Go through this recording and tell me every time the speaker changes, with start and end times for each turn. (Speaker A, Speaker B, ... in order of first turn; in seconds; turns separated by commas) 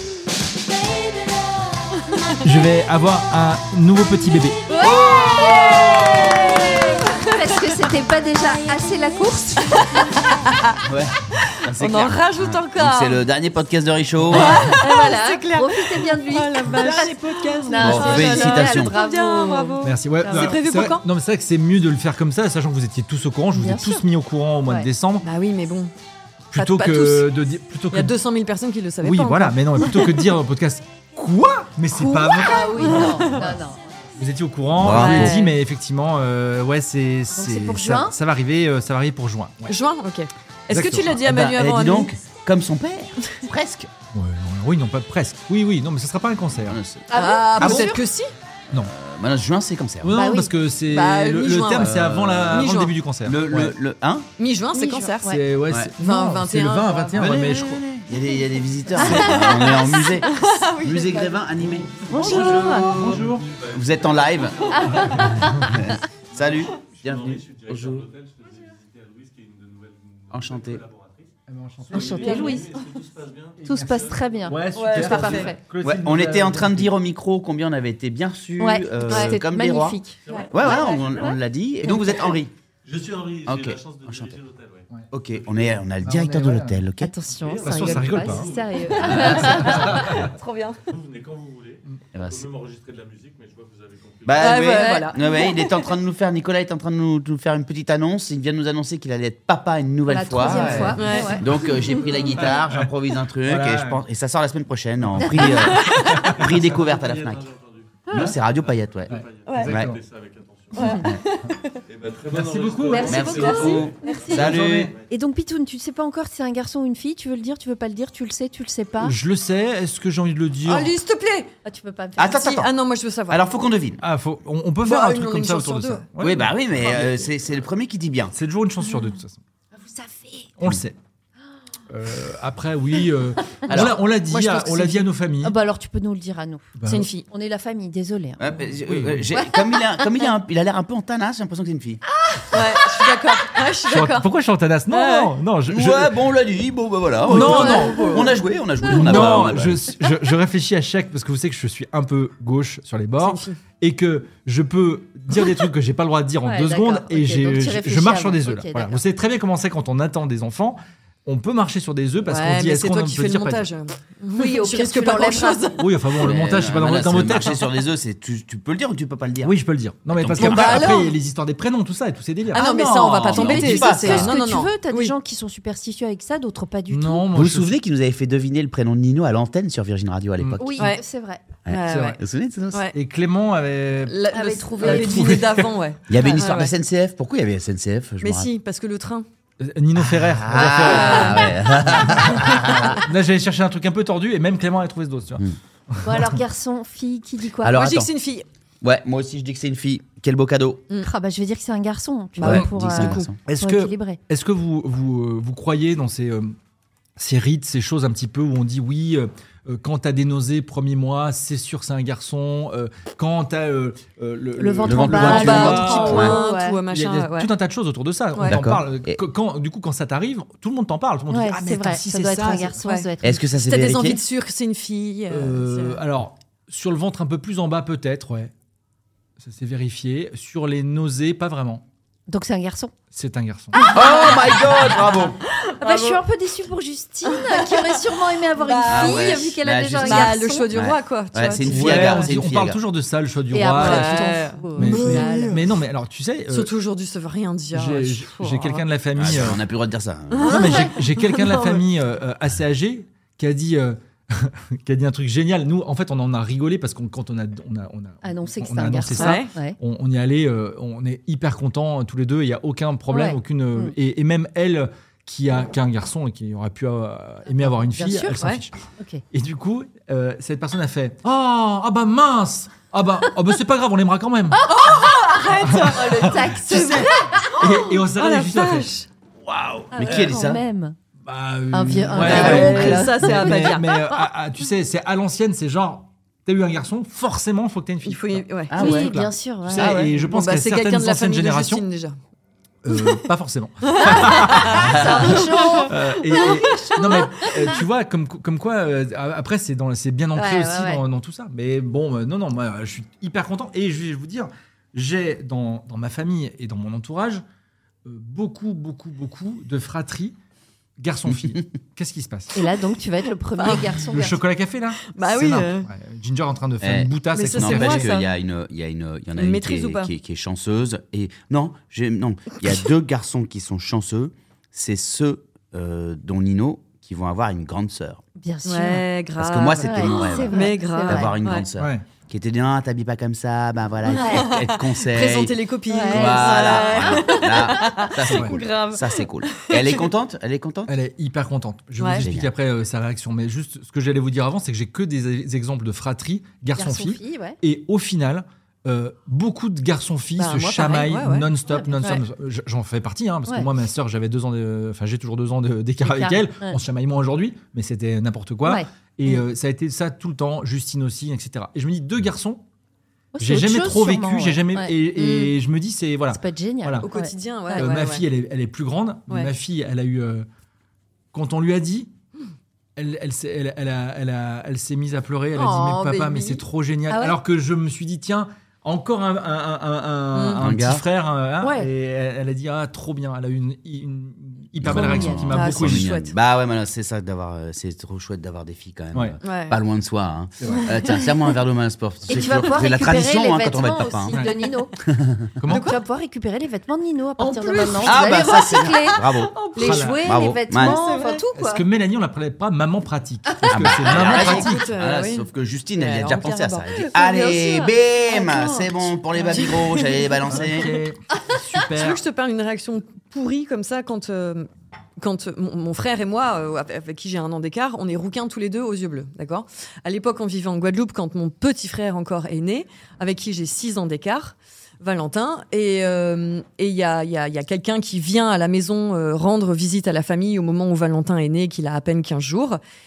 Speaker A: 2.0-2.4, Speaker B: 2.4-4.7, Speaker C: 4.7-10.3, Speaker D: 4.8-6.8, Speaker A: 4.9-7.7, Speaker A: 9.8-10.8, Speaker D: 10.8-14.7, Speaker A: 11.4-13.2, Speaker B: 14.3-14.7, Speaker A: 14.3-21.0, Speaker C: 14.4-20.5, Speaker B: 16.8-17.9, Speaker D: 17.8-18.9, Speaker B: 19.8-25.2, Speaker C: 23.5-24.0, Speaker A: 25.2-25.9, Speaker B: 26.5-28.1, Speaker A: 26.5-27.3, Speaker A: 27.9-30.2, Speaker B: 29.0-33.5, Speaker A: 31.9-33.4, Speaker C: 32.4-34.1, Speaker B: 34.2-39.7, Speaker D: 34.7-35.4, Speaker A: 34.9-35.5, Speaker C: 37.3-38.1, Speaker A: 39.7-42.1, Speaker B: 40.7-41.2, Speaker D: 41.2-43.9, Speaker B: 44.1-46.8, Speaker D: 46.6-47.9, Speaker C: 47.1-48.0, Speaker A: 47.1-48.3, Speaker D: 48.7-50.2, Speaker B: 50.0-53.7, Speaker C: 50.1-50.5, Speaker A: 50.9-51.9, Speaker D: 51.8-52.7, Speaker A: 52.5-52.9, Speaker D: 53.2-54.2, Speaker A: 54.4-55.3, Speaker C: 54.7-55.4, Speaker B: 55.2-57.8, Speaker A: 56.0-57.2, Speaker D: 57.1-64.9, Speaker A: 59.0-61.4, Speaker C: 59.1-59.7, Speaker E: 62.1-65.8, Speaker C: 62.1-62.9, Speaker B: 62.1-63.5, Speaker C: 64.7-65.8, Speaker D: 65.6-68.1, Speaker E: 66.3-71.3, Speaker D: 70.3-70.8, Speaker B: 71.5-72.6, Speaker E: 71.9-74.5, Speaker C: 71.9-72.8, Speaker C: 73.6-75.6, Speaker B: 73.7-76.9, Speaker A: 74.7-75.5, Speaker D: 75.8-80.0, Speaker C: 78.6-81.3, Speaker A: 79.1-79.4, Speaker E: 80.2-81.2, Speaker A: 80.3-81.0, Speaker D: 80.5-82.5, Speaker E: 82.8-85.8, Speaker D: 83.4-84.4, Speaker D: 85.1-87.1, Speaker B: 86.0-86.8, Speaker C: 87.0-90.2, Speaker E: 87.3-90.3, Speaker B: 87.6-88.5, Speaker D: 89.0-89.6, Speaker B: 89.1-90.1, Speaker A: 89.2-90.8, Speaker E: 90.8-94.8, Speaker D: 92.1-92.5, Speaker D: 94.2-107.5, Speaker A: 94.4-95.6, Speaker C: 94.8-95.5, Speaker C: 100.0-102.0, Speaker B: 100.5-101.2, Speaker A: 100.5-101.4, Speaker B: 102.5-102.9, Speaker B: 103.4-104.0, Speaker C: 105.2-105.7, Speaker A: 105.4-106.3, Speaker B: 106.0-106.3, Speaker E: 106.2-111.0, Speaker D: 108.1-109.1, Speaker B: 109.1-110.0, Speaker D: 109.7-110.0, Speaker A: 110.7-111.8, Speaker C: 110.8-111.0, Speaker E: 111.9-115.0, Speaker B: 112.3-114.9, Speaker C: 112.9-119.1, Speaker D: 113.0-114.9, Speaker A: 113.3-114.3, Speaker B: 119.0-120.9, Speaker A: 120.6-121.5, Speaker C: 121.6-122.4, Speaker D: 122.2-122.7, Speaker A: 122.2-123.4, Speaker D: 123.3-124.0, Speaker B: 124.0-127.2, Speaker A: 124.8-126.0, Speaker D: 126.2-128.3, Speaker B: 128.3-129.4, Speaker C: 129.7-130.5, Speaker B: 130.6-130.9, Speaker B: 131.9-135.6, Speaker D: 133.7-134.0, Speaker A: 134.2-135.1, Speaker C: 135.4-136.7, Speaker B: 136.8-137.1, Speaker A: 136.8-137.2, Speaker C: 137.3-138.4, Speaker D: 138.4-142.0, Speaker B: 138.8-139.2, Speaker C: 139.3-140.3, Speaker C: 142.2-143.2, Speaker A: 142.5-144.3, Speaker B: 143.9-146.2, Speaker A: 144.9-145.3, Speaker D: 145.7-149.9, Speaker B: 147.3-148.2, Speaker A: 147.3-148.3, Speaker C: 147.3-148.3, Speaker B: 148.8-163.7, Speaker A: 153.2-153.6, Speaker C: 156.4-159.0, Speaker A: 162.2-165.8, Speaker C: 164.3-165.7, Speaker B: 165.8-167.7, Speaker D: 166.2-169.5, Speaker B: 169.4-172.7, Speaker D: 170.1-171.1, Speaker A: 170.3-171.1, Speaker A: 172.5-175.1, Speaker D: 172.5-174.4, Speaker C: 173.3-177.3, Speaker B: 176.9-177.7, Speaker D: 177.3-180.9, Speaker C: 180.6-181.4, Speaker A: 180.8-181.0, Speaker D: 181.6-182.9, Speaker A: 181.7-182.2, Speaker B: 181.9-182.2, Speaker B: 182.9-184.2, Speaker A: 184.1-186.7, Speaker C: 184.3-185.4, Speaker B: 184.8-185.7, Speaker D: 186.1-188.5, Speaker C: 186.2-186.5, Speaker A: 188.2-189.3, Speaker B: 189.6-196.4, Speaker D: 190.0-193.0, Speaker A: 190.5-192.9, Speaker C: 196.0-198.0, Speaker D: 197.6-198.1, Speaker A: 197.7-198.4, Speaker D: 198.8-200.8, Speaker C: 201.0-204.2, Speaker A: 202.4-203.3, Speaker D: 202.4-203.4, Speaker B: 203.4-206.5, Speaker B: 207.2-216.4, Speaker C: 214.6-216.8, Speaker D: 214.8-216.3, Speaker A: 215.2-217.5, Speaker B: 216.9-222.8, Speaker D: 218.4-219.2, Speaker C: 221.3-223.4, Speaker A: 222.8-223.1, Speaker D: 223.2-224.2, Speaker A: 223.6-226.0, Speaker B: 225.3-228.5, Speaker B: 229.4-231.8, Speaker C: 232.3-232.9, Speaker B: 233.1-233.7, Speaker A: 233.7-236.2, Speaker C: 233.8-234.6, Speaker D: 233.9-235.4, Speaker C: 235.8-240.8, Speaker A: 237.2-242.3, Speaker D: 238.9-242.8, Speaker B: 241.6-246.7, Speaker C: 243.5-245.6, Speaker A: 243.7-245.7, Speaker A: 246.5-248.8, Speaker B: 247.7-249.6, Speaker D: 249.2-250.7, Speaker A: 250.3-251.8, Speaker B: 250.5-268.7, Speaker C: 258.2-259.8, Speaker A: 259.2-259.5, Speaker C: 263.1-263.9, Speaker C: 267.6-268.4, Speaker B: 269.3-274.6, Speaker A: 274.6-279.1, Speaker C: 274.6-277.6, Speaker B: 275.6-277.0, Speaker B: 277.6-278.9, Speaker D: 279.4-280.6, Speaker C: 279.9-281.0, Speaker B: 281.2-291.8, Speaker C: 281.7-284.2, Speaker D: 282.1-283.1, Speaker A: 282.2-283.9, Speaker A: 288.0-288.7, Speaker D: 288.7-289.1, Speaker C: 288.8-290.2, Speaker A: 289.8-292.2, Speaker B: 292.8-307.4, Speaker A: 293.9-297.8, Speaker C: 294.4-296.9, Speaker D: 295.0-295.2, Speaker C: 300.4-301.0, Speaker B: 308.0-310.4, Speaker B: 311.0-312.6, Speaker C: 312.5-314.4, Speaker A: 313.6-313.9, Speaker B: 313.6-318.1, Speaker A: 315.1-315.9, Speaker D: 316.8-328.2, Speaker A: 317.3-318.2, Speaker A: 319.4-320.1, Speaker C: 328.4-329.0, Speaker A: 328.6-331.6, Speaker D: 329.4-335.5, Speaker C: 329.8-331.3, Speaker B: 331.8-332.1, Speaker C: 334.1-334.5, Speaker A: 334.1-340.0, Speaker C: 335.9-338.1, Speaker D: 336.1-340.9, Speaker B: 340.9-362.6, Speaker A: 342.0-342.3, Speaker D: 342.2-342.5, Speaker C: 346.8-347.6, Speaker A: 350.4-351.5, Speaker C: 356.0-356.8, Speaker C: 358.6-359.4, Speaker C: 363.3-364.9, Speaker B: 363.4-367.1, Speaker A: 365.1-365.5, Speaker C: 366.3-367.9, Speaker A: 367.0-368.2, Speaker B: 367.7-370.5, Speaker B: 371.3-372.1, Speaker B: 372.9-386.1, Speaker A: 375.5-376.6, Speaker C: 377.1-377.4, Speaker A: 380.3-380.6, Speaker D: 380.6-381.0, Speaker D: 384.8-394.4, Speaker A: 385.0-386.3, Speaker C: 385.0-385.4, Speaker A: 389.4-389.8, Speaker B: 390.6-390.9, Speaker A: 390.7-391.2, Speaker C: 392.3-395.0, Speaker A: 392.3-392.7, Speaker B: 394.3-394.6, Speaker D: 395.0-395.5, Speaker B: 395.6-395.9, Speaker A: 395.7-396.0, Speaker C: 395.7-401.8, Speaker A: 397.4-400.1, Speaker D: 398.0-399.5, Speaker B: 399.8-400.2, Speaker D: 400.2-401.0, Speaker A: 400.7-401.4, Speaker B: 401.5-404.8, Speaker C: 403.6-403.9, Speaker D: 403.7-410.9, Speaker A: 404.1-407.0, Speaker C: 407.0-409.8, Speaker A: 409.5-410.2, Speaker B: 410.5-412.2, Speaker A: 411.9-432.8